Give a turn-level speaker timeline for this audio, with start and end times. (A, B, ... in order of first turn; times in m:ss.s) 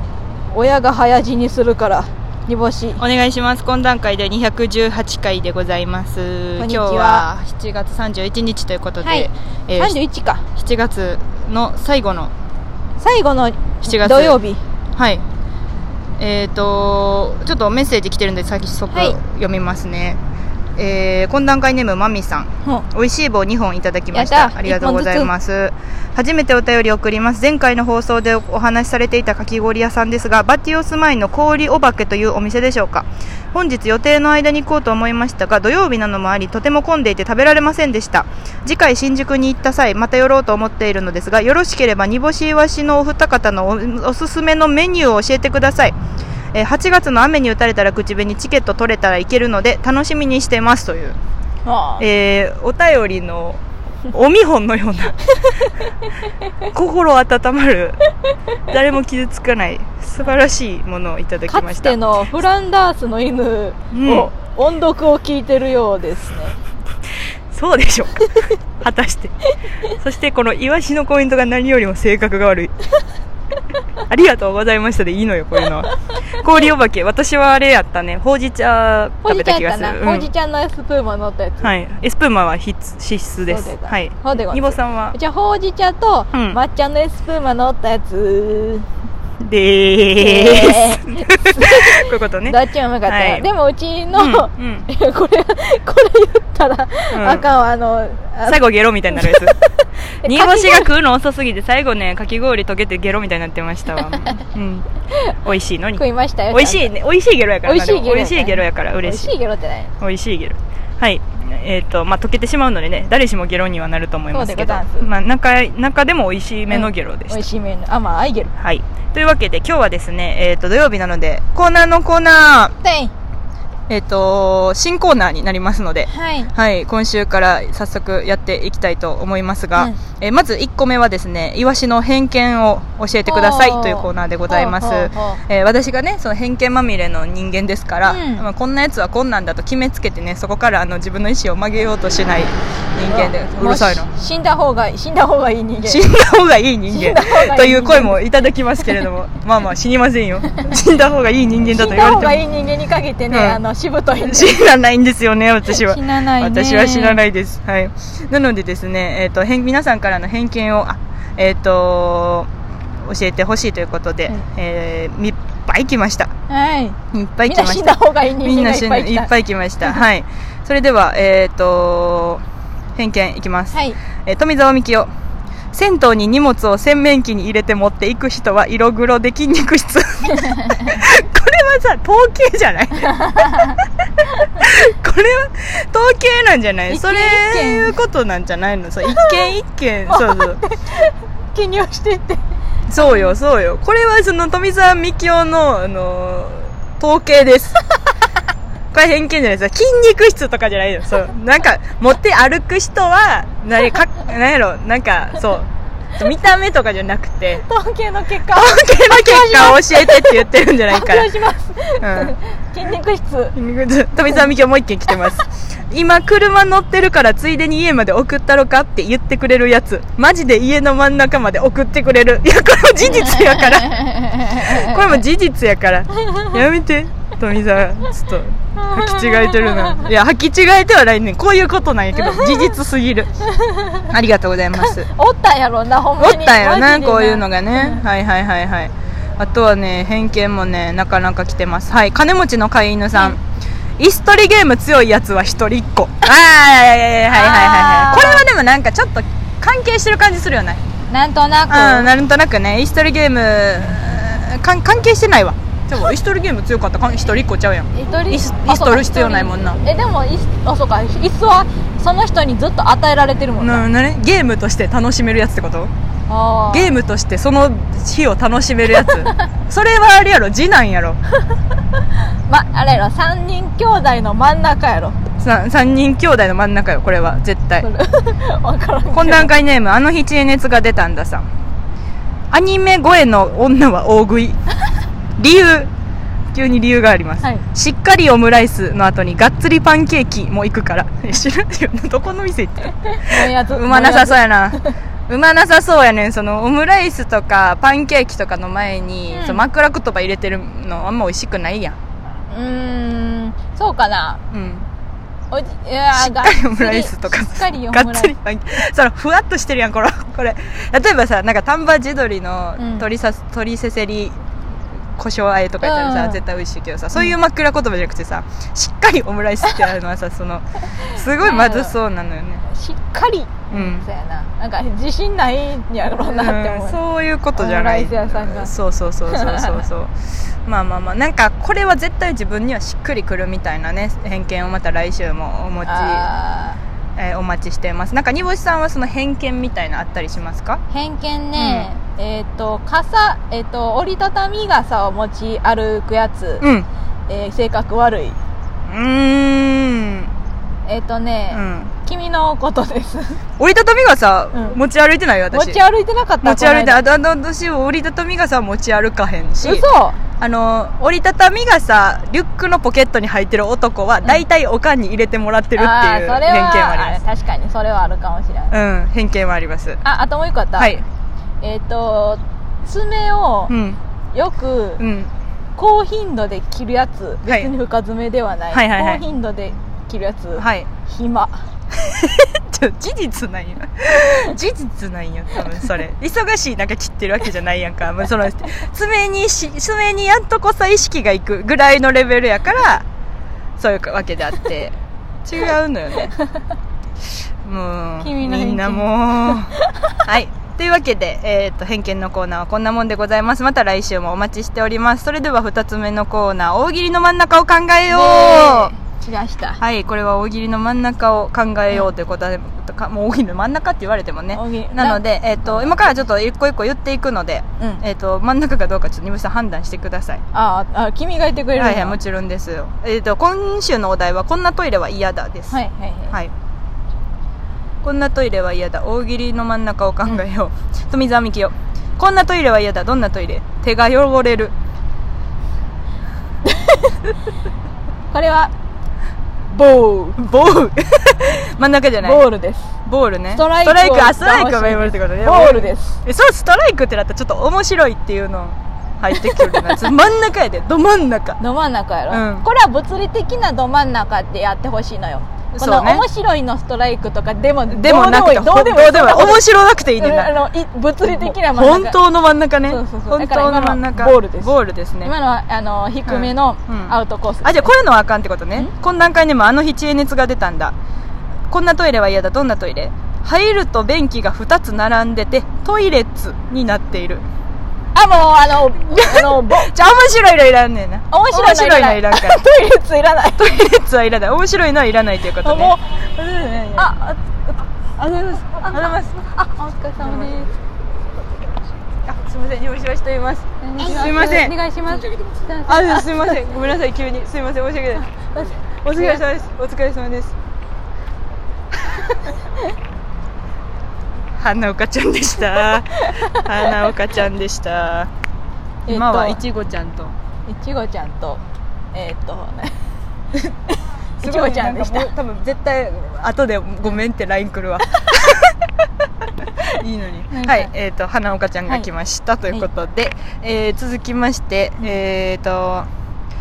0:00.5-0:03.0 A
0:03.0-0:10.0 B
0:06.6-0:07.3 A
0:09.0-0:10.5 A
0:10.5-0:12.3 B
0:13.0-0:14.6 A
0:13.8-0:14.4 B
0:15.0-0:15.2 B
0:16.2-0:20.2 B
0:18.9-0:19.2 A
0:20.8-0:46.0 B
0:24.1-0:25.3 A
0:46.5-0:51.2 B
0:51.6-0:52.1 A
0:52.0-0:55.7 B
0:55.8-0:56.3 A
0:56.6-0:58.0 B
0:58.7-1:02.0 B
1:01.5-1:06.6 A
1:03.9-1:04.3 B
1:07.5-1:12.7 B
1:14.1-1:20.3 B
1:19.2-1:21.7 A
1:21.6-1:25.2 B
1:23.5-1:28.9 A
1:26.3-1:26.6 B
1:29.4-1:33.5 B
1:30.2-1:39.6 A
1:34.1-1:34.9 B
1:37.1-1:37.5 B
1:38.5-1:39.6 B
1:40.2-1:40.9 A
1:40.2-1:44.9 B
1:44.0-1:44.3 A
1:45.4-1:49.3 B
1:46.0-1:46.9 A
1:47.6-1:49.9 A
1:50.0-1:57.4 B
1:54.3-1:55.1 A
1:56.7-1:58.5 A
1:58.6-2:02.7 B
2:02.8-2:03.1 A
2:03.9-2:24.1 B
2:06.1-2:06.5 A
2:13.3-2:15.4 A
2:18.1-2:18.5 A
2:23.1-2:26.1 A
2:25.8-2:32.4 B
2:26.9-2:28.2 A
2:31.7-2:34.6 A
2:33.3-2:33.6 B
2:34.2-2:46.3 B
2:35.7-2:37.2 A
2:46.5-2:49.3 A
2:47.1-2:52.4 B
2:53.0-2:55.1 B
2:53.7-2:54.0 A
2:55.7-3:03.9 B
3:00.3-3:01.0 A
3:03.1-3:03.7 A
3:04.4-3:10.6 B
3:06.9-3:08.0 A
3:09.1-3:09.5 A
3:10.1-3:12.4 A
3:12.9-3:17.8 B
3:13.0-3:13.3 A
3:18.9-3:27.6 B
3:27.6-3:33.6 A
3:28.5-3:31.3 B
3:32.0-3:32.4 B
3:33.6-3:53.4 B
3:43.2-3:45.1 A
3:48.8-3:50.1 A
3:52.1-3:52.7 A
3:53.4-3:54.1 A
3:54.1-3:55.1 B
3:54.8-3:58.0 A
3:56.2-4:03.4 B
4:04.0-4:10.8 B
4:07.3-4:08.5 A
4:11.1-4:12.1 A
4:11.7-4:19.8 B
4:17.9-4:23.9 A
4:23.6-4:25.9 B
4:26.3-4:27.0 A
4:26.7-4:31.2 B
4:29.0-4:29.4 A
4:32.0-4:35.2 A
4:35.4-4:37.9 B
4:37.8-4:39.5 A
4:39.1-4:41.5 B
4:42.5-4:44.6 B
4:45.4-4:45.9 B
4:46.5-5:02.0 B
4:53.1-4:54.9 A
4:59.3-4:59.7 A
5:02.5-5:04.4 A
5:04.5-5:04.9 B
5:05.5-5:08.4 A
5:06.1-5:14.4 B
5:12.8-5:13.1 A
5:15.1-5:22.7 B
5:15.8-5:16.4 A
5:21.0-5:22.0 A
5:22.7-5:27.0 A
5:23.7-5:24.1 B
5:26.2-5:30.1 B
5:27.6-5:28.7 A
5:29.3-5:29.8 A
5:30.6-5:36.3 B
5:35.8-5:36.8 A
5:37.2-5:40.8 B
5:40.9-5:46.6 A
5:41.6-5:41.9 B
5:46.6-5:46.9 B
5:47.3-5:48.4 A
5:48.9-5:50.3 B
5:50.9-5:53.4 A
5:51.5-5:51.9 B
5:53.6-5:55.8 B
5:55.5-5:57.0 A
5:56.4-5:59.8 B
5:59.6-6:00.2 A
6:00.4-6:07.2 B
6:05.8-6:08.7 A
6:08.7-6:10.0 B
6:10.0-6:10.9 A
6:10.8-6:11.0 B
6:11.6-6:13.7 A
6:13.7-6:14.0 B
6:14.3-6:15.0 A
6:15.0-6:15.3 B
6:15.8-6:21.7 A
6:17.4-6:17.7 B
6:18.7-6:19.2 B
6:20.6-6:20.9 B
6:21.9-6:33.0 B
6:33.8-6:36.3 B
6:37.6-6:48.9 B
6:38.2-6:40.2 A
6:48.1-6:49.8 A
6:49.8-7:00.4 B
6:54.5-6:56.0 A
7:00.5-7:02.2 A
7:01.8-7:05.8 B
7:05.7-7:06.4 A
7:08.0-7:14.7 B
7:16.6-7:17.3 A
7:18.3-7:18.7 A
7:19.7-7:20.4 A
7:20.4-7:22.4 B
7:22.2-7:22.9 A
7:23.0-7:31.6 B
7:23.5-7:26.2 A
7:29.3-7:30.1 A
7:31.6-7:39.6 A
7:32.3-7:32.7 B
7:35.8-7:36.2 B
7:37.9-7:40.5 B
7:40.2-7:42.2 A
7:41.3-7:45.3 B
7:42.8-7:47.9 A
7:46.3-7:51.0 B
7:51.7-7:57.4 B
7:58.1-8:00.0 A
7:59.1-8:02.6 B
8:01.3-8:03.7 A
8:03.6-8:07.1 B
8:05.6-8:07.8 A
8:08.2-8:09.6 B
8:08.8-8:10.8 A
8:10.2-8:10.7 B
8:12.2-8:14.8 B
8:13.8-8:16.6 A
8:15.8-8:20.5 B
8:18.4-8:19.4 A
8:24.6-8:28.3 B
8:25.8-8:26.9 A
8:29.1-8:29.6 A
8:29.1-8:30.4 B
8:30.7-8:33.0 A
8:34.4-8:35.3 A
8:34.4-8:38.8 B
8:39.6-8:46.1 B
8:40.5-8:40.9 A